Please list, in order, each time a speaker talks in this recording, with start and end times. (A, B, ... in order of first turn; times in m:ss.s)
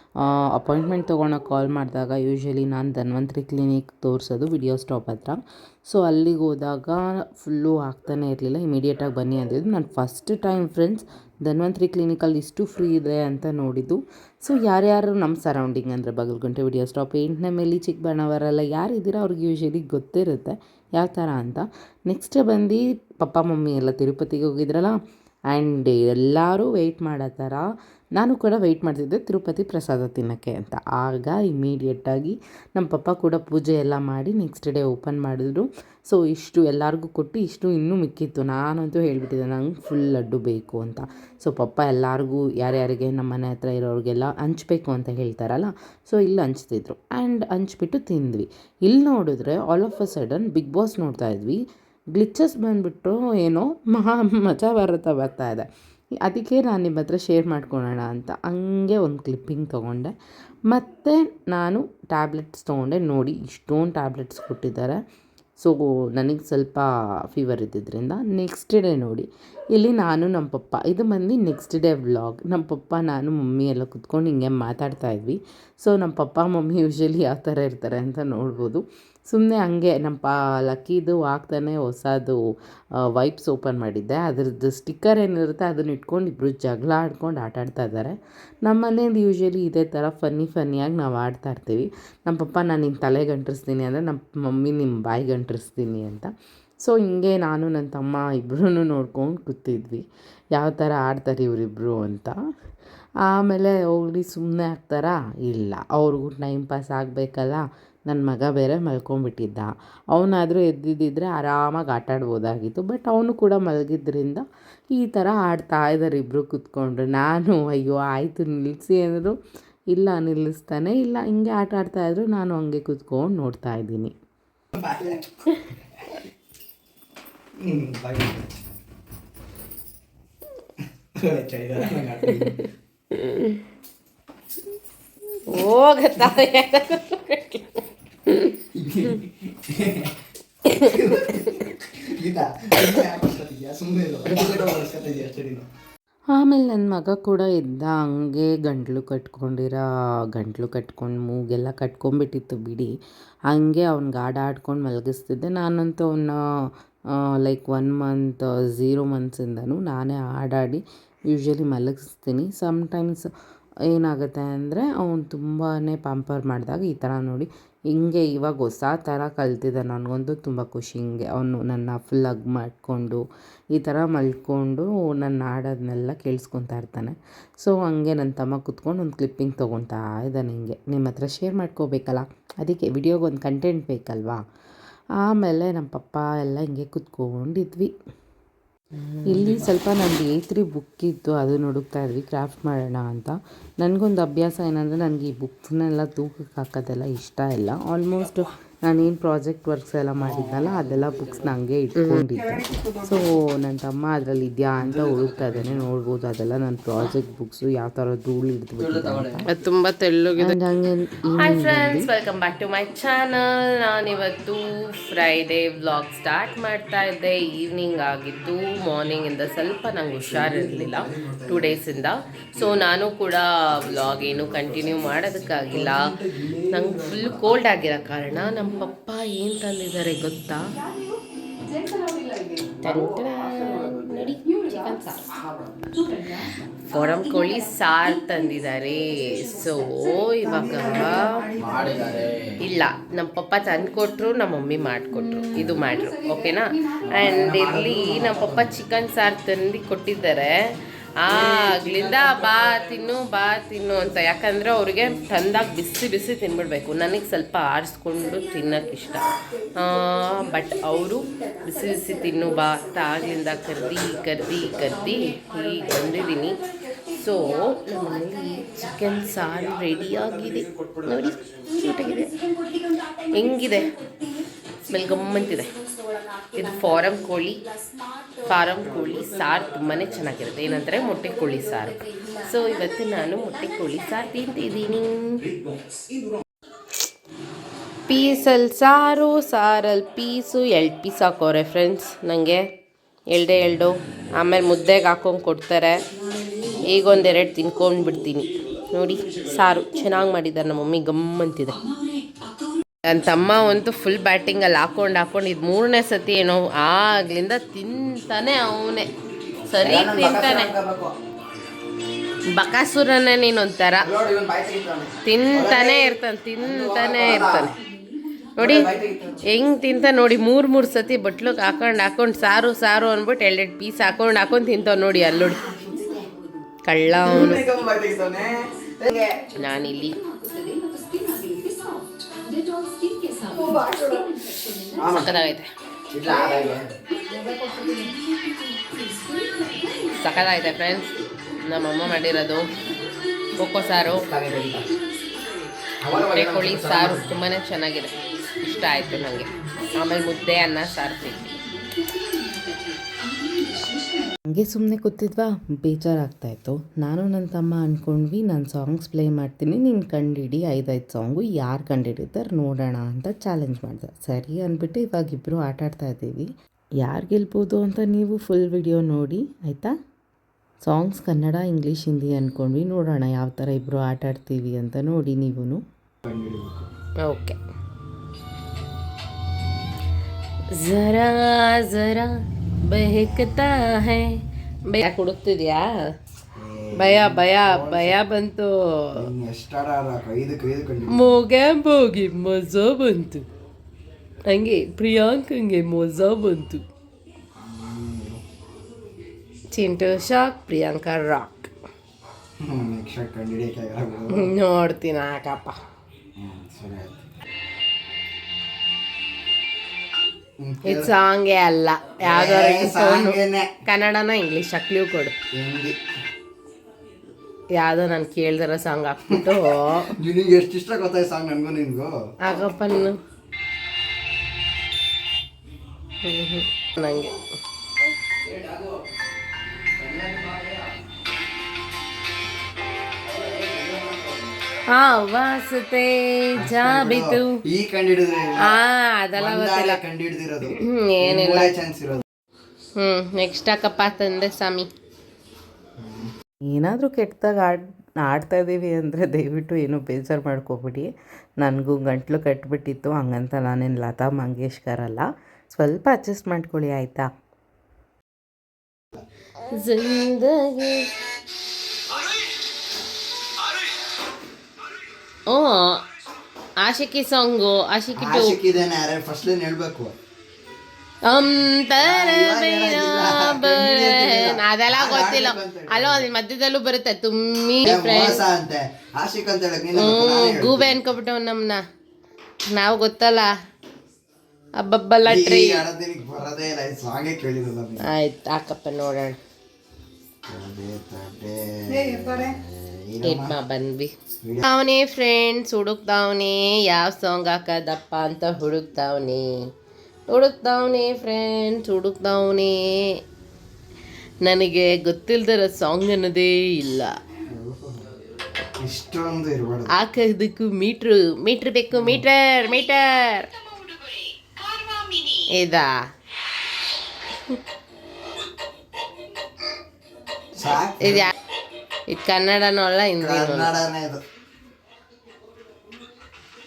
0:00.2-0:25.0 A
0:25.5-0:27.6 A
0:28.2-0:51.6 A
0:52.1-0:55.7 A
0:56.2-1:00.1 A
1:00.7-1:05.0 A
1:05.6-1:22.4 A
1:23.0-1:36.3 A
1:36.8-1:42.3 A
1:43.2-1:59.3 A
1:59.9-2:04.1 A
2:04.8-2:05.2 B
2:07.6-2:08.5 B
2:11.2-2:12.6 B
2:13.1-2:13.6 C
2:15.5-2:18.6 C
2:18.8-2:20.1 B
2:20.6-2:25.6 B
2:26.3-2:29.8 A
2:30.4-2:32.9 A
2:33.5-2:36.4 A
2:37.4-2:43.3 A
2:43.9-2:53.2 A
2:53.8-3:04.4 A
3:05.2-3:07.9 A
3:09.2-3:29.5 A
3:20.2-3:20.7 B
3:22.0-3:22.3 C
3:22.4-3:23.1 B
3:24.9-3:25.6 B
3:28.8-3:29.4 B
3:29.5-3:30.6 C
3:30.4-3:32.1 A
3:31.3-3:50.8 C
3:40.3-3:41.8 B
3:45.8-3:47.2 B
3:52.8-3:55.3 C
3:56.4-4:01.5 C
4:01.1-4:02.6 B
4:02.6-4:32.3 C
4:07.1-4:08.7 B
4:11.3-4:11.8 B
4:33.2-4:33.9 C
4:34.9-4:35.7 C
4:36.5-4:37.6 C
4:38.4-4:45.4 C
4:48.1-4:52.7 C
4:53.3-4:56.0 C
4:56.8-5:01.8 C
5:03.0-5:09.1 C
5:09.6-5:10.7 C
5:09.8-5:11.1 B
5:12.5-5:14.1 C
5:14.0-5:17.8 B
5:15.2-5:17.8 C
5:18.6-5:18.9 C
5:18.6-5:19.4 B
5:19.5-5:26.1 C
5:26.8-5:27.6 C
5:27.2-5:29.4 B
5:29.6-5:30.2 C
5:33.5-5:35.3 B
5:35.1-5:35.7 C
5:36.1-5:37.0 B
5:39.9-5:42.7 C
5:43.6-5:44.3 C
5:44.1-5:44.9 B
5:46.0-5:47.3 B
5:46.2-5:51.6 C
5:54.5-6:06.5 A
6:07.0-6:09.9 A
6:10.8-6:15.8 A
6:16.2-6:16.9 B
6:17.2-6:17.6 C
6:20.7-6:24.4 C
6:24.9-6:26.0 C
6:26.6-6:28.2 B
6:27.0-6:29.3 C
6:29.1-6:31.4 B
6:31.1-6:33.4 C
6:34.5-6:36.8 C
6:37.6-6:38.4 B
6:39.7-6:41.7 C
6:42.6-6:44.5 B
6:44.3-6:45.8 C
6:46.4-6:47.2 B
6:50.6-6:51.1 B
6:50.8-6:55.4 C
6:52.2-6:53.7 B
6:55.5-6:56.0 B
6:57.7-7:00.1 C
7:00.1-7:02.1 B
7:02.4-7:03.2 C
7:06.2-7:07.4 C
7:08.5-7:08.9 B
7:10.0-7:10.9 B
7:13.3-7:14.5 B
7:14.9-7:17.5 C
7:16.6-7:18.8 B
7:18.6-7:20.0 C
7:19.3-7:22.2 B
7:20.7-7:21.7 C
7:23.0-7:24.9 C
7:26.0-7:26.3 B
7:26.6-7:31.1 A
7:31.6-7:37.2 A
7:39.7-7:41.1 C
7:45.5-7:46.0 C
7:46.8-7:48.6 C
7:48.2-7:50.1 B
7:51.2-7:58.4 C
7:52.0-7:56.3 B
7:57.8-8:01.0 B
8:00.0-8:01.8 C
8:02.7-8:03.5 C
8:04.8-8:05.9 C
8:05.2-8:08.1 B
8:08.0-8:09.4 C
8:10.5-8:13.6 B
8:13.2-8:19.5 C
8:14.3-8:14.6 B
8:20.3-8:23.1 C
8:24.4-8:27.2 C
8:27.5-8:28.0 B
8:28.8-8:29.9 B
8:29.9-8:33.5 C
8:31.9-8:32.2 B
8:35.0-8:35.9 C
8:40.6-8:41.3 B
8:40.8-8:41.3 C
8:42.1-8:43.8 C
8:43.2-8:44.2 B